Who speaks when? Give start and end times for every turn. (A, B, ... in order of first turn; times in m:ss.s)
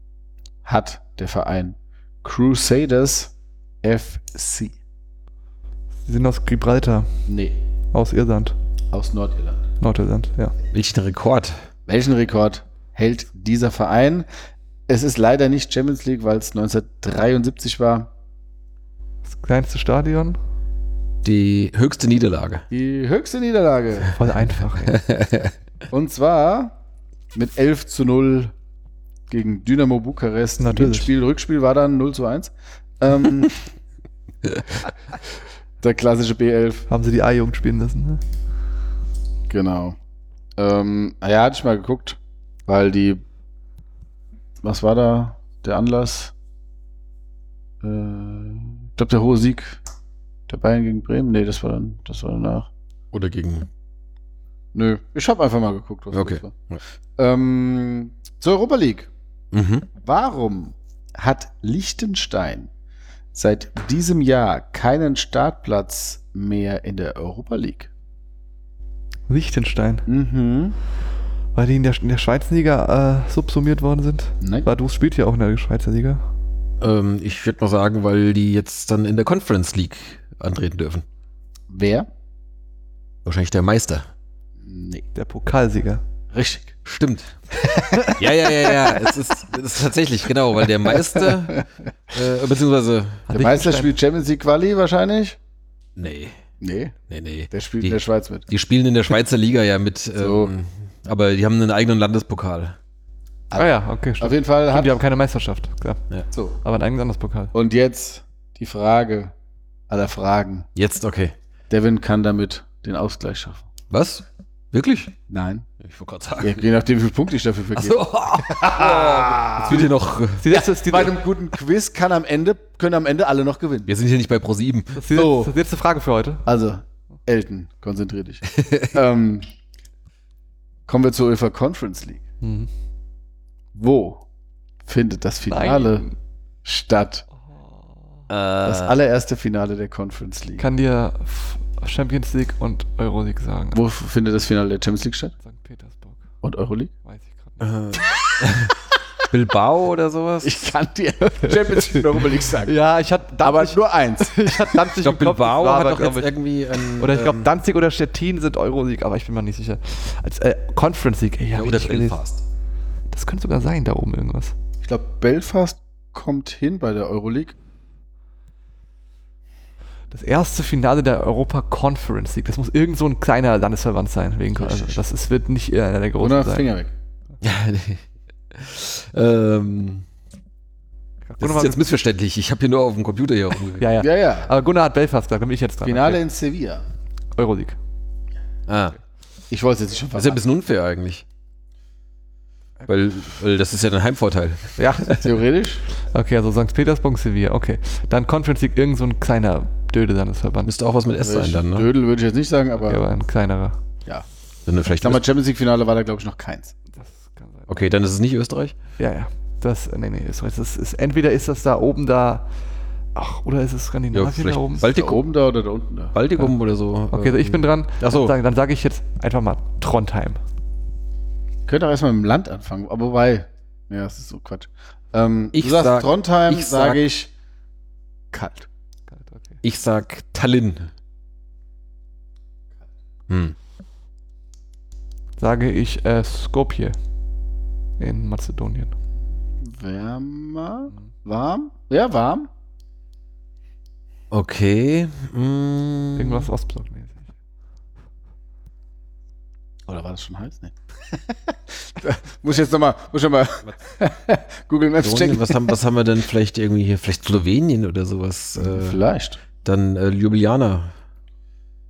0:00.6-0:04.8 A
0:06.0-0:07.1 B
0:07.3-0:07.6 A
0:07.9-0:08.6 B
0:08.9-0:09.6 A
0:09.8-0:10.5 B
0:10.7-0:11.6 C
0:11.9-0:14.3 A
0:14.9-0:18.1 A
0:19.3-0:20.4 B
0:21.2-0:22.7 C
0:22.7-0:24.1 A
0:24.1-0:25.0 B
0:24.9-0:25.5 C
0:25.9-0:26.8 A
0:27.4-0:28.5 A
0:29.3-0:33.6 A
0:30.6-0:31.1 B
0:35.8-0:36.9 A
0:36.9-0:38.2 B
0:39.5-0:40.0 A
0:40.6-0:43.2 A
0:44.6-0:46.3 A
0:47.8-0:49.8 A
0:50.5-0:52.7 A
0:53.1-0:53.7 C
0:54.7-0:56.5 A
0:56.1-0:56.8 C
0:57.2-0:59.1 A
0:59.5-0:59.9 C
1:00.0-1:02.7 A
1:03.3-1:07.9 A
1:09.3-1:10.1 B
1:10.1-1:10.8 A
1:11.6-1:16.2 B
1:14.4-1:14.7 A
1:16.8-1:21.0 C
1:21.7-1:22.1 A
1:23.2-1:24.1 C
1:24.6-1:25.0 A
1:25.2-1:26.0 B
1:26.3-1:26.7 A
1:26.8-1:27.4 C
1:27.6-1:28.2 A
1:28.0-1:33.3 C
1:30.9-1:31.6 A
1:33.3-1:33.9 B
1:33.4-1:35.4 A
1:36.0-1:36.4 C
1:36.6-1:37.0 A
1:37.1-1:42.8 C
1:37.5-1:38.5 A
1:40.2-1:40.5 A
1:43.5-1:45.0 A
1:43.6-1:46.0 B
1:46.3-1:46.6 A
1:46.6-1:47.5 B
1:47.5-1:49.3 A
1:49.9-1:50.7 A
1:50.8-1:51.3 C
1:51.7-1:53.6 A
1:53.9-1:55.1 C
1:55.3-1:55.7 A
1:55.8-1:56.6 C
1:56.4-1:59.9 A
1:57.8-2:00.5 C
1:59.7-2:01.2 B
2:00.5-2:03.9 A
2:03.9-2:05.0 C
2:05.0-2:06.4 B
2:05.1-2:05.5 A
2:06.5-2:09.5 A
2:08.6-2:08.9 C
2:10.9-2:12.2 A
2:12.4-2:12.7 B
2:13.8-2:14.2 A
2:14.9-2:16.1 A
2:15.5-2:16.1 B
2:16.6-2:17.2 A
2:17.5-2:18.2 B
2:18.3-2:19.0 C
2:18.6-2:20.7 A
2:20.6-2:23.8 B
2:23.7-2:25.3 A
2:25.4-2:26.2 B
2:26.4-2:26.9 A
2:27.0-2:27.7 B
2:27.6-2:28.7 C
2:29.3-2:30.6 C
2:30.4-2:32.8 A
2:31.5-2:32.1 B
2:32.6-2:36.3 B
2:33.4-2:34.9 A
2:35.0-2:37.5 C
2:37.0-2:42.2 B
2:41.5-2:42.4 C
2:43.1-2:44.5 B
2:44.8-2:47.6 A
2:50.1-2:56.7 B
2:54.5-2:55.0 A
2:56.2-2:56.9 A
2:57.4-3:00.0 C
3:01.2-3:01.8 B
3:01.4-3:03.9 C
3:03.8-3:06.2 B
3:04.0-3:04.5 A
3:05.8-3:06.8 A
3:07.4-3:07.8 B
3:08.7-3:09.0 C
3:09.5-3:10.4 A
3:10.2-3:11.2 C
3:12.9-3:15.3 C
3:14.8-3:15.2 B
3:15.2-3:15.8 A
3:16.0-3:20.7 B
3:20.7-3:21.9 C
3:21.2-3:23.0 A
3:22.8-3:23.8 B
3:24.7-3:25.2 C
3:25.0-3:26.7 A
3:26.9-3:27.7 B
3:27.7-3:28.8 C
3:29.0-3:32.5 B
3:33.2-3:34.9 B
3:34.1-3:35.2 C
3:34.8-3:36.2 A
3:36.1-3:38.4 C
3:37.1-3:40.4 B
3:41.7-3:47.3 A
3:45.5-3:47.0 C
3:48.3-3:48.7 A
3:49.1-3:49.6 B
3:49.6-3:50.9 C
3:53.3-3:53.6 C
3:55.4-3:57.0 B
3:58.0-3:59.0 B
3:59.6-4:02.5 A
4:04.3-4:06.5 C
4:06.2-4:07.3 B
4:09.9-4:15.8 A
4:15.0-4:19.0 C
4:18.6-4:19.4 A
4:19.6-4:20.9 C